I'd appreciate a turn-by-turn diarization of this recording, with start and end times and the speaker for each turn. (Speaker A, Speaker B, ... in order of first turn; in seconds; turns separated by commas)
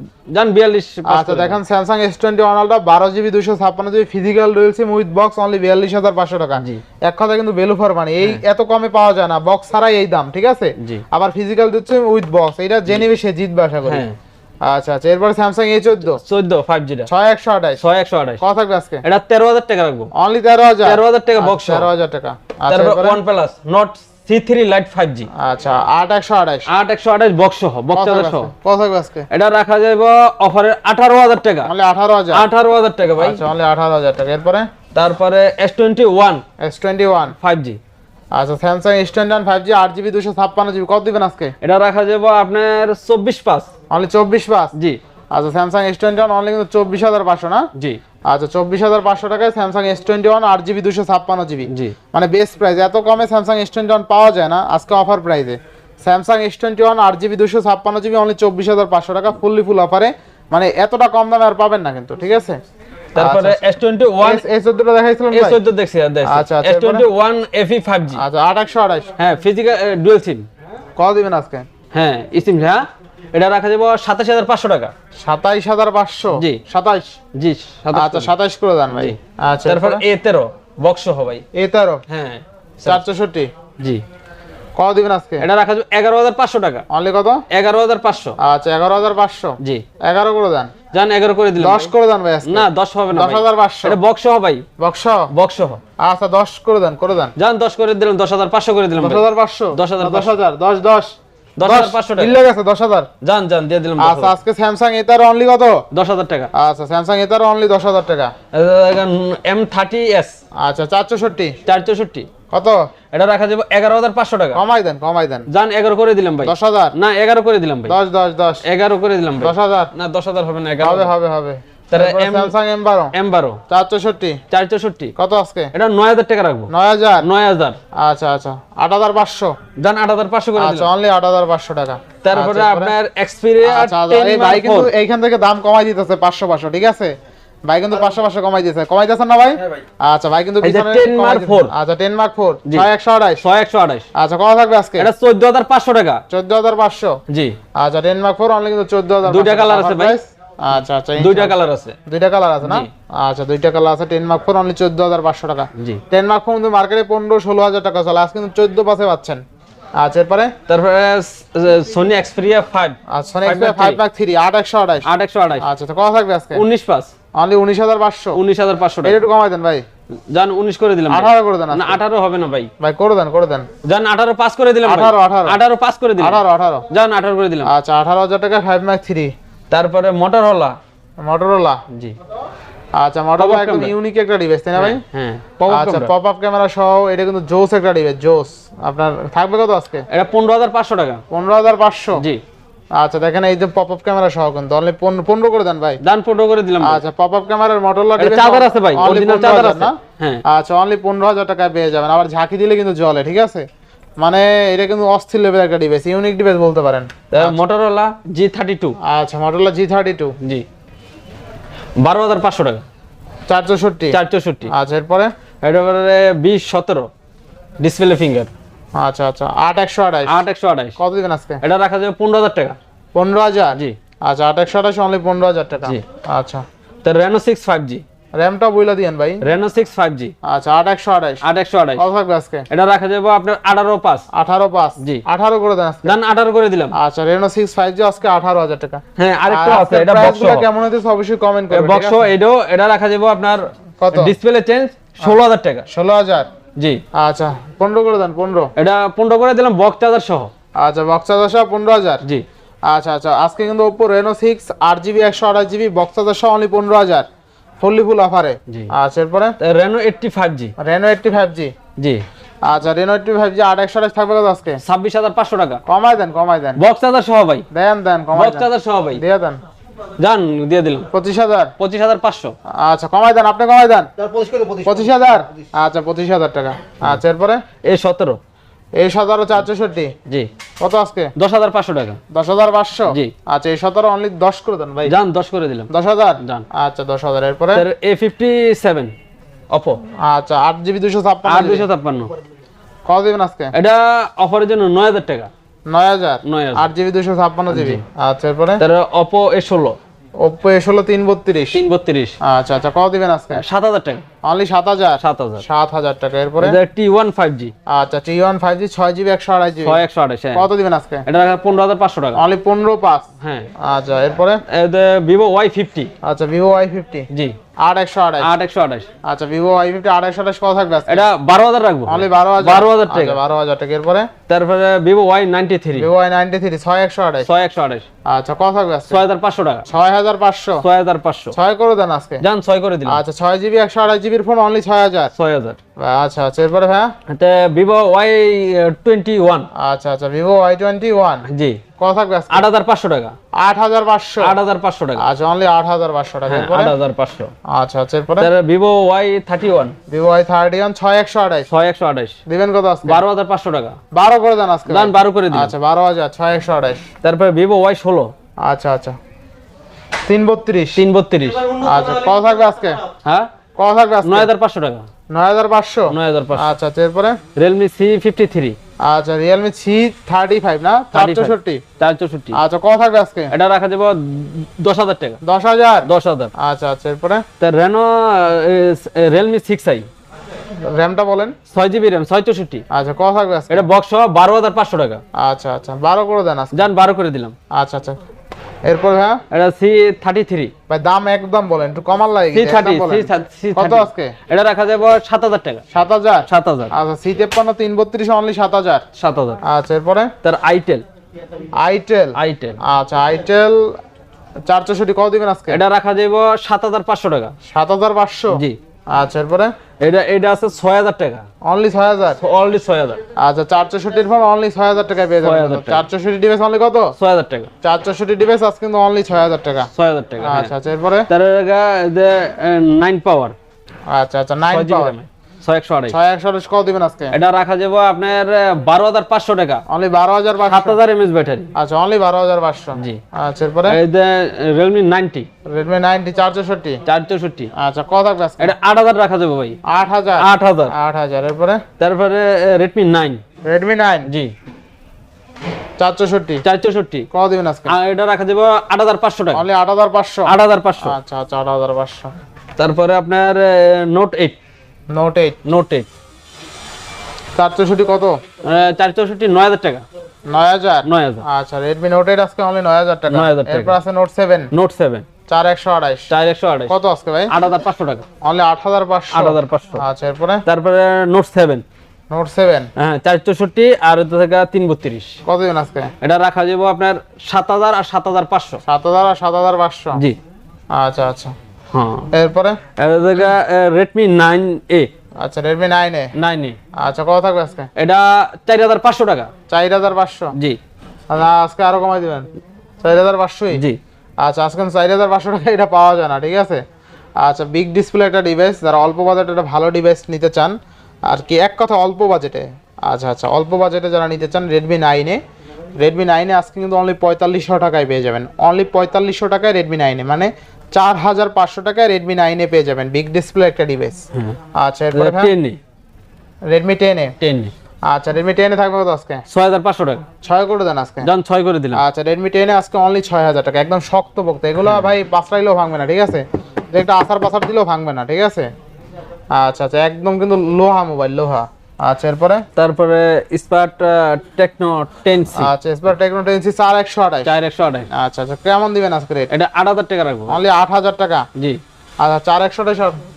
Speaker A: 0.3-1.6, Speaker B: 1.1-14.1, Speaker A: 6.6-6.8, Speaker A: 10.8-11.0, Speaker A: 13.8-14.2, Speaker B: 14.6-16.2, Speaker A: 16.1-17.1, Speaker B: 17.1-17.8, Speaker A: 17.8-18.4, Speaker B: 18.4-19.0, Speaker A: 19.0-20.1, Speaker B: 20.1-23.2, Speaker A: 20.8-21.9, Speaker A: 22.7-25.3, Speaker B: 25.4-26.7, Speaker A: 26.7-28.5, Speaker B: 27.9-29.3, Speaker A: 29.3-31.7, Speaker B: 31.6-32.5, Speaker A: 32.3-33.4, Speaker B: 33.2-34.7, Speaker A: 34.9-36.4, Speaker B: 36.6-37.4, Speaker A: 37.4-37.8, Speaker B: 38.3-41.5, Speaker A: 41.6-43.7, Speaker B: 43.9-44.7, Speaker A: 44.8-45.0, Speaker B: 45.3-47.7, Speaker A: 47.8-48.0, Speaker B: 48.3-62.6, Speaker A: 51.7-52.0, Speaker A: 63.1-64.5, Speaker B: 63.2-63.6, Speaker B: 64.2-65.6, Speaker A: 65.3-68.2, Speaker B: 66.2-67.1, Speaker B: 68.1-69.1, Speaker A: 69.2-70.5, Speaker B: 71.0-71.7, Speaker A: 71.9-74.9, Speaker B: 75.2-77.2, Speaker A: 76.3-76.6, Speaker A: 77.3-78.3, Speaker B: 77.9-80.0, Speaker A: 78.9-81.4, Speaker B: 81.5-82.0, Speaker A: 82.1-83.0, Speaker B: 82.8-83.5, Speaker B: 84.8-85.5, Speaker A: 85.4-86.8, Speaker B: 86.9-87.4, Speaker A: 87.5-88.4, Speaker B: 88.4-90.7, Speaker A: 90.9-91.9, Speaker B: 91.6-94.0, Speaker A: 92.5-94.6, Speaker B: 94.8-95.3, Speaker A: 95.3-95.8, Speaker B: 96.0-97.3, Speaker A: 97.4-100.3, Speaker B: 99.0-103.1, Speaker A: 101.6-102.4, Speaker A: 103.2-104.3, Speaker B: 104.0-105.8, Speaker A: 105.9-106.5, Speaker B: 106.5-108.3, Speaker A: 108.5-110.3, Speaker B: 110.6-111.6, Speaker A: 111.7-112.3, Speaker B: 112.5-112.8, Speaker A: 113.1-114.6, Speaker B: 114.5-115.5, Speaker A: 115.5-118.0, Speaker B: 116.4-117.0, Speaker B: 117.9-118.6, Speaker A: 118.6-121.1, Speaker B: 119.4-119.9, Speaker B: 120.8-123.1, Speaker A: 121.9-122.6, Speaker A: 123.1-123.6, Speaker B: 123.7-124.4, Speaker A: 124.5-125.1, Speaker B: 125.2-125.7, Speaker A: 125.7-126.7, Speaker B: 126.7-127.3, Speaker A: 127.2-127.8, Speaker B: 128.0-129.6, Speaker A: 129.8-130.9, Speaker B: 130.6-132.9, Speaker A: 132.2-134.9, Speaker B: 133.6-137.1, Speaker B: 137.7-143.4, Speaker A: 140.6-141.7, Speaker A: 143.4-144.1, Speaker B: 144.2-145.1, Speaker A: 145.0-146.2, Speaker B: 146.3-147.2, Speaker A: 147.3-147.6, Speaker B: 147.8-151.6, Speaker A: 149.2-150.2, Speaker A: 151.2-152.0, Speaker B: 152.1-159.4, Speaker A: 152.6-152.9, Speaker A: 155.8-156.0, Speaker B: 160.0-160.5, Speaker A: 160.7-164.0, Speaker B: 163.1-165.1, Speaker A: 165.1-165.7, Speaker B: 165.6-166.6, Speaker A: 166.5-167.1, Speaker B: 167.4-168.4, Speaker A: 168.3-169.2, Speaker B: 169.0-169.8, Speaker A: 170.3-172.7, Speaker B: 171.1-172.0, Speaker B: 172.8-173.7, Speaker A: 173.8-177.7, Speaker B: 174.8-175.6, Speaker B: 176.2-176.9, Speaker B: 177.6-179.3, Speaker A: 179.7-180.8, Speaker B: 181.2-181.8, Speaker A: 181.9-182.2, Speaker B: 183.0-185.0, Speaker A: 183.4-183.9, Speaker A: 184.8-186.1, Speaker B: 185.6-190.1, Speaker A: 190.1-191.2, Speaker B: 191.3-192.2, Speaker A: 192.2-192.4, Speaker B: 193.0-196.0, Speaker A: 196.0-197.0, Speaker B: 196.8-203.7, Speaker A: 198.2-200.4, Speaker B: 204.2-207.6, Speaker A: 207.3-209.0, Speaker B: 209.0-210.3, Speaker A: 210.4-210.7, Speaker A: 212.0-212.8, Speaker B: 213.5-214.2, Speaker A: 214.1-214.7, Speaker B: 214.7-215.3, Speaker A: 215.6-217.1, Speaker A: 217.8-218.5, Speaker B: 219.0-220.4, Speaker A: 220.3-221.0, Speaker B: 221.0-221.6, Speaker A: 221.6-222.8, Speaker B: 223.2-226.6, Speaker A: 227.0-228.0, Speaker B: 228.3-229.4, Speaker A: 229.4-230.3, Speaker B: 230.4-231.4, Speaker A: 231.4-232.0, Speaker B: 232.0-232.7, Speaker A: 232.7-234.2, Speaker B: 234.3-236.2, Speaker A: 236.1-236.9, Speaker B: 236.9-242.3, Speaker A: 239.2-240.7, Speaker A: 241.7-245.9, Speaker B: 244.0-244.3, Speaker B: 245.9-246.5, Speaker B: 247.2-248.7, Speaker A: 248.8-250.5, Speaker B: 250.8-252.2, Speaker B: 252.9-257.3, Speaker B: 257.8-259.6, Speaker A: 259.6-260.7, Speaker B: 260.8-261.7, Speaker A: 262.0-262.2, Speaker B: 262.7-264.8, Speaker A: 264.8-265.8, Speaker B: 265.9-266.8, Speaker A: 266.8-267.7, Speaker B: 267.7-269.6, Speaker A: 268.3-269.2, Speaker A: 270.2-271.1, Speaker B: 271.1-271.7, Speaker A: 271.8-272.6, Speaker B: 272.8-274.1, Speaker B: 274.8-277.6, Speaker A: 277.8-278.4, Speaker B: 279.0-280.1, Speaker B: 280.8-281.3, Speaker A: 281.4-282.2, Speaker B: 282.3-285.1, Speaker A: 285.1-286.7, Speaker B: 285.9-287.9, Speaker A: 287.8-289.1, Speaker A: 289.7-290.0, Speaker B: 290.2-291.9, Speaker A: 291.5-292.3, Speaker B: 293.1-293.7, Speaker A: 293.7-295.5, Speaker B: 295.9-298.8, Speaker A: 296.4-296.9, Speaker A: 297.7-298.0, Speaker A: 298.8-300.0, Speaker B: 300.4-301.8, Speaker A: 301.7-302.4, Speaker B: 302.4-303.6, Speaker A: 303.5-304.2, Speaker B: 304.4-306.8, Speaker A: 305.2-305.6, Speaker A: 306.6-307.7, Speaker B: 307.9-310.0, Speaker A: 309.8-310.7, Speaker B: 310.5-311.2, Speaker A: 311.3-312.4, Speaker B: 312.4-313.3, Speaker A: 313.4-313.7, Speaker B: 313.8-314.6, Speaker A: 314.7-316.1, Speaker B: 316.2-317.3, Speaker A: 317.3-317.6, Speaker B: 317.8-318.5, Speaker A: 318.4-319.1, Speaker B: 319.2-321.3, Speaker A: 321.1-323.4, Speaker B: 322.1-324.3, Speaker A: 324.5-326.1, Speaker B: 325.9-327.5, Speaker A: 327.4-328.1, Speaker B: 328.3-329.2, Speaker A: 329.1-329.9, Speaker B: 329.9-330.8, Speaker A: 330.8-331.6, Speaker B: 331.5-332.4, Speaker A: 332.4-333.2, Speaker B: 333.1-335.3, Speaker A: 335.4-335.8, Speaker B: 336.0-337.1, Speaker A: 337.3-339.7, Speaker B: 339.8-341.4, Speaker A: 341.5-341.8, Speaker B: 342.0-342.7, Speaker A: 342.5-343.4, Speaker B: 343.6-344.6, Speaker A: 344.4-345.2, Speaker B: 345.2-346.9, Speaker A: 346.5-347.5, Speaker B: 347.7-348.5, Speaker A: 348.4-350.0, Speaker B: 350.1-351.7, Speaker A: 351.7-352.4, Speaker B: 352.5-353.2, Speaker A: 353.1-354.0, Speaker B: 354.1-357.0, Speaker A: 354.9-355.8, Speaker A: 357.2-358.3, Speaker B: 358.6-359.2, Speaker B: 360.3-361.0, Speaker A: 361.0-362.1, Speaker B: 361.8-363.0, Speaker A: 363.2-363.5, Speaker B: 363.8-364.5, Speaker A: 364.2-365.1, Speaker B: 365.3-367.4, Speaker A: 366.1-366.7, Speaker A: 367.6-368.8, Speaker B: 369.1-371.8, Speaker A: 371.1-372.6, Speaker B: 372.5-373.5, Speaker A: 373.5-375.4, Speaker B: 375.4-377.4, Speaker A: 376.1-376.5, Speaker A: 377.6-380.1, Speaker B: 380.8-381.6, Speaker A: 381.7-382.8, Speaker B: 382.9-383.9, Speaker A: 383.7-385.2, Speaker B: 385.4-386.9, Speaker A: 386.7-387.6, Speaker B: 387.7-388.2, Speaker B: 388.9-389.4, Speaker A: 389.5-390.7, Speaker B: 390.9-394.4, Speaker A: 392.5-395.8, Speaker B: 395.9-399.0, Speaker A: 396.5-396.9, Speaker A: 399.2-399.6, Speaker B: 399.6-400.3, Speaker A: 400.4-401.1, Speaker B: 401.8-403.9, Speaker A: 402.4-402.8, Speaker B: 404.7-405.8, Speaker A: 405.7-407.5, Speaker B: 407.7-408.6, Speaker A: 408.5-408.8, Speaker B: 409.1-409.7, Speaker A: 410.0-411.4, Speaker B: 411.7-412.4, Speaker A: 412.4-413.2, Speaker B: 413.4-417.1, Speaker A: 415.4-416.1, Speaker A: 417.2-417.7, Speaker B: 417.8-419.9, Speaker A: 419.9-420.7, Speaker B: 420.4-421.3, Speaker A: 421.3-423.6, Speaker B: 424.1-425.1, Speaker A: 424.7-426.2, Speaker B: 426.1-427.4, Speaker A: 427.3-429.8, Speaker B: 429.9-431.0, Speaker A: 430.7-431.7, Speaker B: 431.8-434.0, Speaker A: 433.0-433.2, Speaker A: 433.9-435.5, Speaker B: 435.7-437.0, Speaker A: 437.1-437.7, Speaker B: 437.8-438.7, Speaker A: 438.6-439.8, Speaker B: 439.9-441.8, Speaker A: 440.4-440.9, Speaker A: 442.0-443.4, Speaker B: 443.7-444.3, Speaker A: 444.2-444.5, Speaker B: 446.0-446.6, Speaker A: 446.6-447.3, Speaker B: 447.3-447.9, Speaker A: 447.9-449.6, Speaker B: 449.5-452.3, Speaker A: 450.5-451.1, Speaker A: 452.8-454.6, Speaker B: 455.1-455.6, Speaker A: 455.6-456.1, Speaker B: 457.6-458.4, Speaker A: 458.6-460.1, Speaker B: 460.5-464.7, Speaker A: 461.1-461.4, Speaker A: 463.3-464.0, Speaker A: 464.7-465.3, Speaker B: 465.5-466.3, Speaker A: 466.3-466.9, Speaker B: 466.9-467.5, Speaker A: 467.5-468.2, Speaker B: 468.4-470.6, Speaker A: 469.3-470.0, Speaker A: 470.7-471.8, Speaker B: 472.3-472.9, Speaker A: 473.0-475.4, Speaker B: 475.5-476.1, Speaker A: 476.2-478.8, Speaker B: 478.9-480.2, Speaker B: 481.0-481.5, Speaker A: 481.9-482.3, Speaker B: 482.3-482.8, Speaker A: 483.0-485.1, Speaker B: 485.4-486.3, Speaker A: 486.4-486.8, Speaker B: 487.0-487.9, Speaker A: 487.9-489.5, Speaker B: 489.7-490.5, Speaker B: 491.3-492.5, Speaker B: 493.0-493.8, Speaker A: 493.7-494.0, Speaker B: 494.4-496.8, Speaker B: 497.4-500.8, Speaker B: 501.3-505.4, Speaker B: 506.0-514.2, Speaker A: 514.3-514.6, Speaker B: 514.8-515.5, Speaker A: 515.1-515.8, Speaker B: 516.7-517.4, Speaker A: 517.4-517.7, Speaker B: 518.1-519.4, Speaker A: 519.5-520.2, Speaker B: 520.4-521.3, Speaker A: 521.2-522.0, Speaker B: 521.9-528.7, Speaker A: 524.8-525.1, Speaker B: 529.5-532.6, Speaker A: 532.8-535.7, Speaker B: 535.5-537.5, Speaker A: 537.5-538.1, Speaker B: 538.1-539.5, Speaker A: 539.5-540.6, Speaker B: 540.5-541.5, Speaker A: 541.5-541.8, Speaker B: 542.2-543.2